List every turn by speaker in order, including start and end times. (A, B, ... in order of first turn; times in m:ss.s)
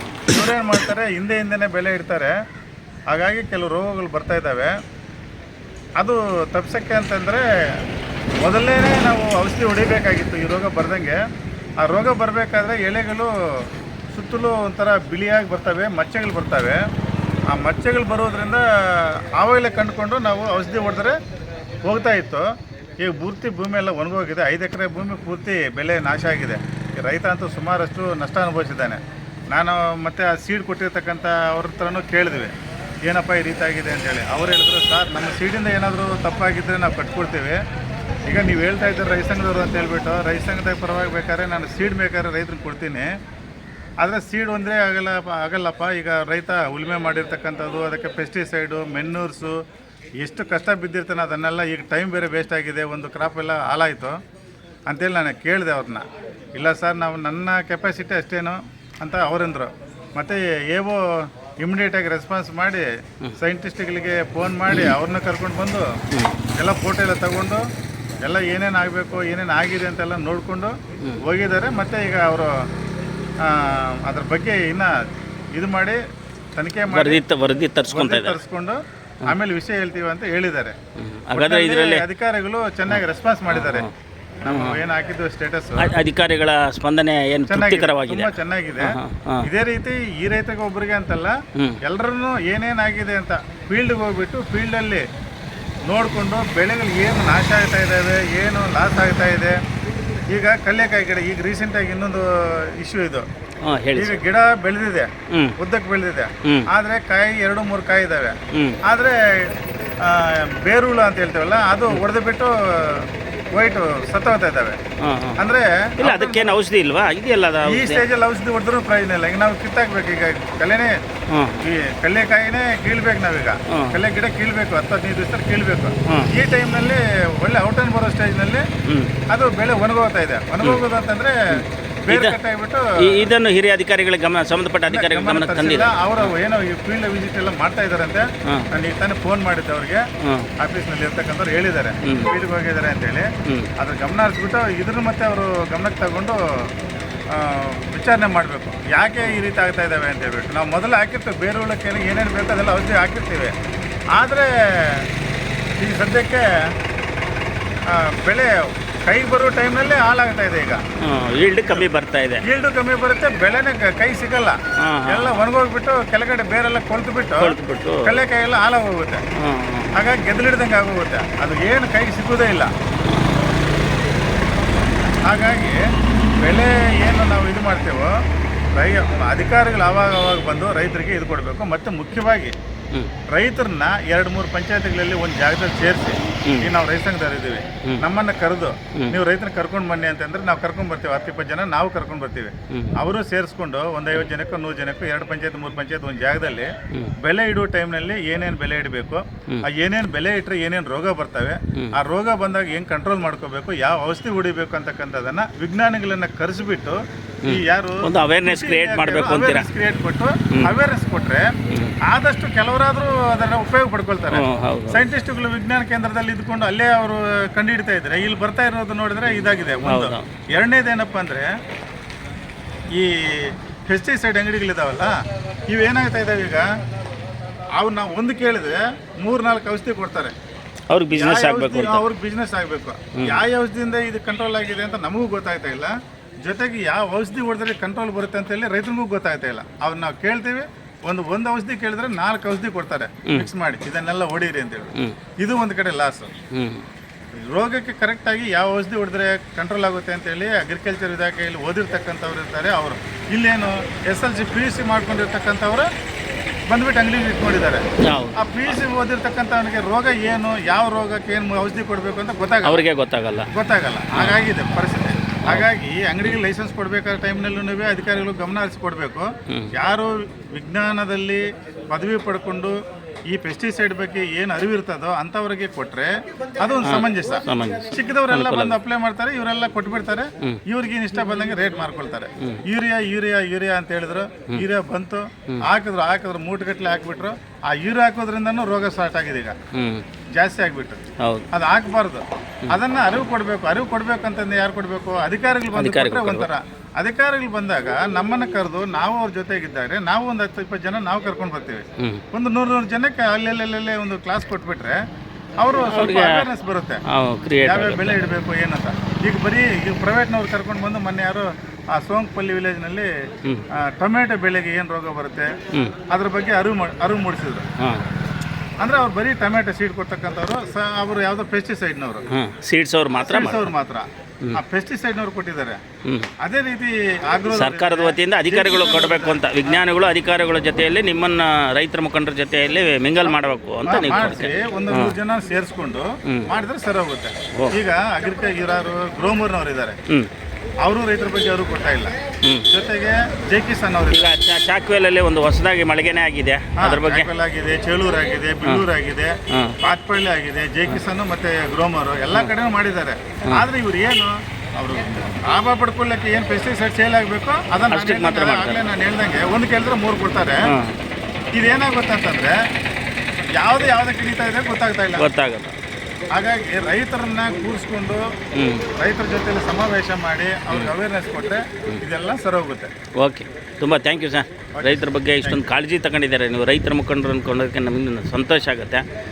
0:00.3-0:02.3 A
0:03.1-0:04.7 A
0:06.0-0:07.4 A
0:08.4-0:11.2 A
0:11.8-0:13.3 A
0:14.1-0:16.8 A
0:17.5-0:21.1 A
0:21.8-0:22.5 A
0:23.0-0:29.0 A
0:29.5-0:32.5 A
0:33.1-0:37.6 A
0:38.3-0:43.1 A
0:44.0-0:49.5 A
0:50.2-0:54.2 A
0:54.9-1:01.0 A
1:01.6-1:02.9 A
1:03.4-1:05.9 A
1:06.1-1:06.4 B
1:06.6-1:07.6 A
1:08.2-1:12.6 A
1:13.4-1:14.9 A
1:15.5-1:16.0 A
1:16.6-1:17.2 A
1:16.9-1:18.4 B
1:17.9-1:20.8 A
1:21.0-1:22.0 B
1:21.3-1:23.9 A
1:22.9-1:23.9 B
1:24.4-1:25.9 A
1:24.5-1:24.8 B
1:25.8-1:29.5 B
1:27.5-1:35.0 A
1:35.9-1:39.6 A
1:40.3-1:43.2 A
1:43.6-1:44.2 B
1:44.0-1:54.8 A
1:45.3-1:45.6 B
1:48.5-1:48.8 B
1:55.0-1:55.4 B
1:55.4-1:56.6 A
1:56.0-1:58.0 B
1:57.6-2:01.0 A
2:01.3-2:01.6 B
2:01.6-2:08.6 A
2:03.7-2:04.0 B
2:08.9-2:09.1 B
2:09.3-2:11.3 A
2:11.5-2:12.4 B
2:12.0-2:13.3 A
2:13.0-2:16.3 B
2:14.9-2:20.0 A
2:20.2-2:20.5 B
2:20.6-2:26.4 A
2:22.0-2:22.3 B
2:27.3-2:33.5 A
2:34.1-2:35.1 A
2:35.8-2:36.6 A
2:37.9-2:40.8 A
2:41.0-2:42.4 B
2:42.4-2:49.2 A
2:44.8-2:45.4 B
2:47.4-2:48.2 B
2:49.4-2:49.9 B
2:49.9-2:52.7 A
2:55.2-2:55.8 A
2:56.4-2:58.2 A
2:58.8-3:02.5 A
3:03.3-3:16.7 A
3:17.2-3:31.5 A
3:27.4-3:29.7 B
3:32.0-3:41.5 A
3:34.3-3:35.0 B
3:39.8-3:40.3 B
3:42.9-3:45.1 A
3:45.7-3:46.6 A
3:47.8-3:50.3 A
3:50.9-3:52.0 B
3:51.1-3:55.9 A
3:56.4-4:06.3 A
4:06.5-4:06.8 B
4:07.3-4:15.9 A
4:16.7-4:17.8 A
4:18.0-4:18.7 B
4:18.4-4:22.8 A
4:22.6-4:23.5 B
4:23.5-4:32.7 A
4:24.1-4:24.4 B
4:29.5-4:29.7 B
4:33.3-4:49.5 A
4:36.8-4:38.8 B
4:49.7-4:50.0 B
4:50.3-4:51.0 A
4:51.5-5:05.0 A
4:55.7-4:56.5 B
5:05.6-5:07.0 A
5:05.9-5:06.5 B
5:07.1-5:08.2 B
5:07.6-5:13.1 A
5:13.7-5:15.5 A
5:16.1-5:17.7 A
5:17.8-5:18.0 B
5:18.8-5:22.2 A
5:22.3-5:23.7 B
5:23.3-5:25.8 A
5:26.0-5:26.3 B
5:26.4-5:29.8 A
5:27.5-5:35.2 B
5:33.2-5:40.0 A
5:40.8-5:42.1 A
5:42.7-5:44.3 A
5:44.1-5:47.3 B
5:46.8-6:00.6 A
5:49.5-5:49.8 B
5:57.9-5:58.8 B
6:00.6-6:00.9 B
6:01.5-6:02.5 A
6:03.6-6:05.2 A
6:05.1-6:05.7 B
6:06.3-6:08.2 A
6:08.5-6:08.9 B
6:09.0-6:12.9 A
6:13.2-6:19.0 B
6:14.7-6:15.6 A